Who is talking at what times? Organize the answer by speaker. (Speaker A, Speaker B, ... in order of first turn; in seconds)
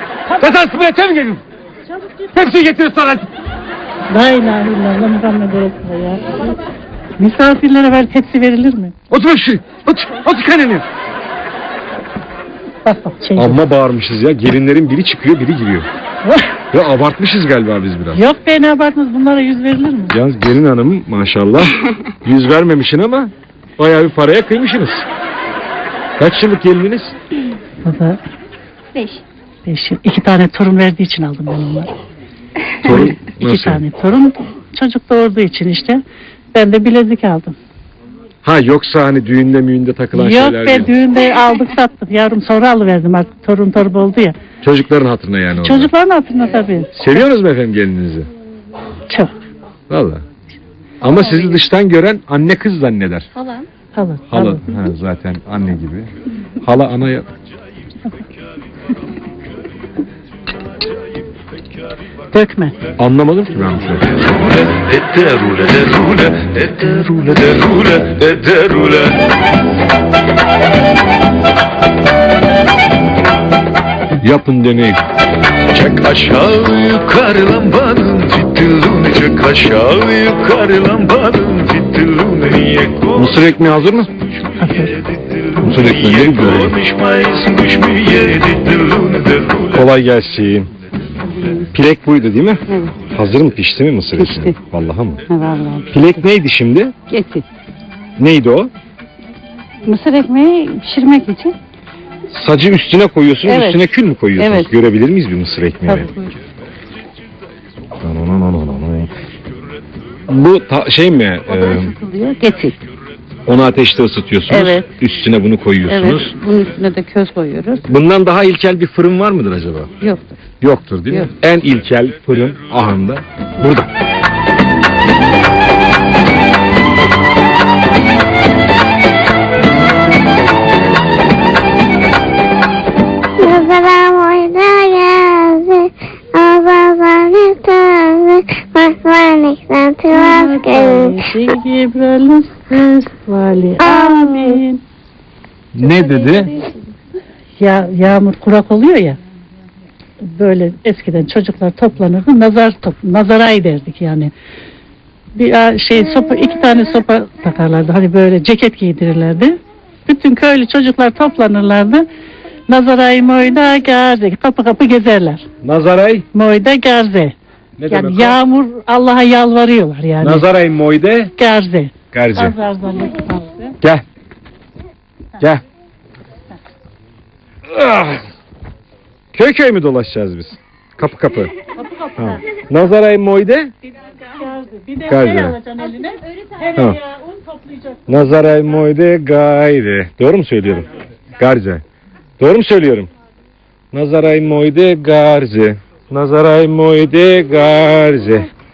Speaker A: 0.3-0.7, 1.9-2.4, 4.1-6.5, 7.2-8.9, 12.8-13.6, 18.1-20.1, 27.8-28.2, 29.6-31.9, 32.8-36.0, 36.5-37.6, 40.1-44.4, 45.6-47.2, 53.9-54.9, 62.3-62.8, 84.6-85.0, 140.1-144.8, 147.6-149.2, 150.2-154.3, 155.3-162.1, 162.7-165.4, 166.3-167.3, 167.9-170.5, 171.3-173.8, 181.8-182.4, 184.1-188.5
Speaker B: 0.4-1.4, 2.3-3.3, 9.1-10.8, 13.3-15.9, 16.7-18.2, 20.1-25.1, 26.2-27.1, 32.8-33.8, 38.4-40.9, 44.6-45.9, 46.9-48.3, 49.9-50.2, 51.0-53.3, 54.3-56.1, 56.6-57.3, 63.0-64.2, 74.2-75.0, 83.1-84.1, 85.5-86.8, 89.7-90.7, 91.7-95.2, 95.9-96.9, 98.2-98.7, 102.3-106.1, 108.0-109.1, 110.3-111.9, 113.5-116.3, 117.9-119.9, 120.6-123.9, 145.7-146.5, 165.6-166.2, 167.8-168.4, 170.2-171.3, 172.1-172.6, 177.7-178.2, 179.3-181.5, 182.2-183.7, 185.1-185.6, 188.1-191.8, 192.4-193.1, 193.9-198.5
Speaker C: 64.2-69.3, 75.7-83.4, 85.1-89.9
Speaker D: 94.2-94.5, 95.3-95.9, 97.1-97.4, 99.9-101.5, 103.4-103.8, 104.4-104.7, 105.9-106.3, 111.5-112.8, 114.5-114.9, 115.9-117.8, 120.0-120.3
Speaker E: 133.4-141.2, 142.7-143.0, 143.8-144.6, 145.8-146.7